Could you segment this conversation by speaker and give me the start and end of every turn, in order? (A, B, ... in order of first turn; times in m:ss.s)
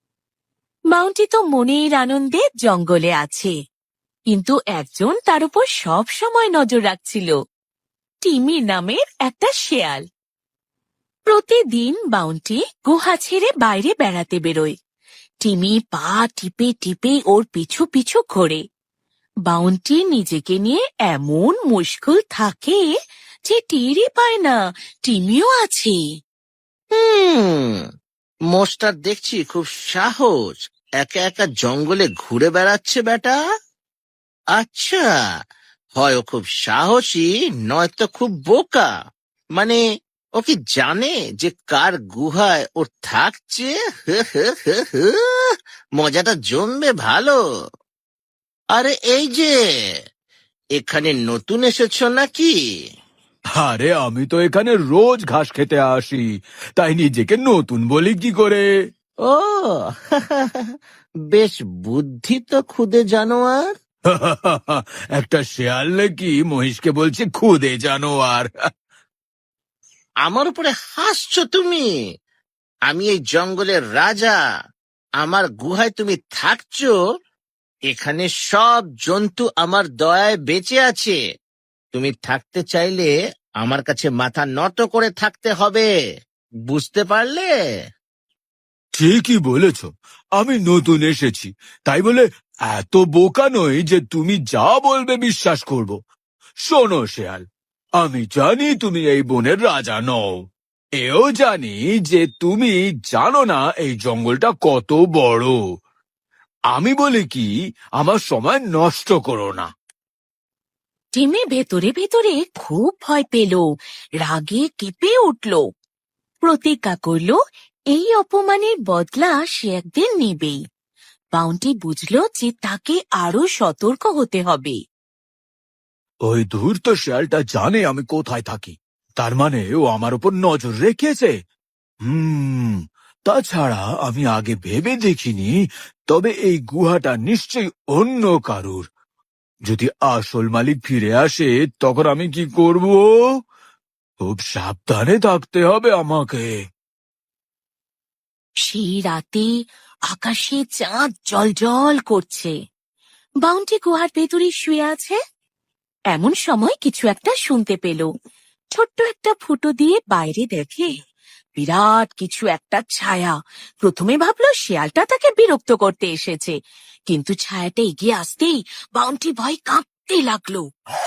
0:00.9-0:03.5 A
0:04.3-0:07.3 A
0:08.2-0:10.0 A
0:11.3-0:14.8 A
0:15.4-0:18.6 A
0:19.5-0:22.8 A
0:23.5-0:26.0 A
0:27.0-0:27.8 B
0:28.5-0:33.4 B
0:34.6-0:35.1 B
0:36.0-0:38.9 B
0:40.4-0:45.2 B
0:46.0-0:47.4 B
0:48.8-0:49.6 B
0:50.8-0:52.6 B
0:53.6-0:56.3 C
0:56.8-0:58.7 C
0:59.2-1:00.7 B
1:01.3-1:03.6 B
1:04.1-1:08.5 C
1:10.2-1:11.9 B
1:12.9-1:14.4 B
1:15.2-1:16.9 B
1:17.9-1:21.2 B
1:21.9-1:25.9 B
1:26.7-1:27.5 B
1:29.0-1:36.0 C
1:36.7-1:37.4 C
1:38.0-1:40.3 C
1:41.0-1:45.6 C
1:46.7-1:49.7 C
1:51.2-1:53.6 A
1:54.2-1:55.6 A
1:56.4-1:57.4 A
1:57.9-2:00.6 A
2:01.3-2:04.8 A
2:06.3-2:11.3 C
2:12.1-2:18.8 C
2:19.7-2:23.3 C
2:24.2-2:26.5 C
2:28.6-2:29.5 A
2:30.1-2:32.5 A
2:33.4-2:35.2 A
2:36.1-2:38.1 A
2:38.8-2:41.0 A
2:41.6-2:46.5 A
2:47.1-2:50.7 A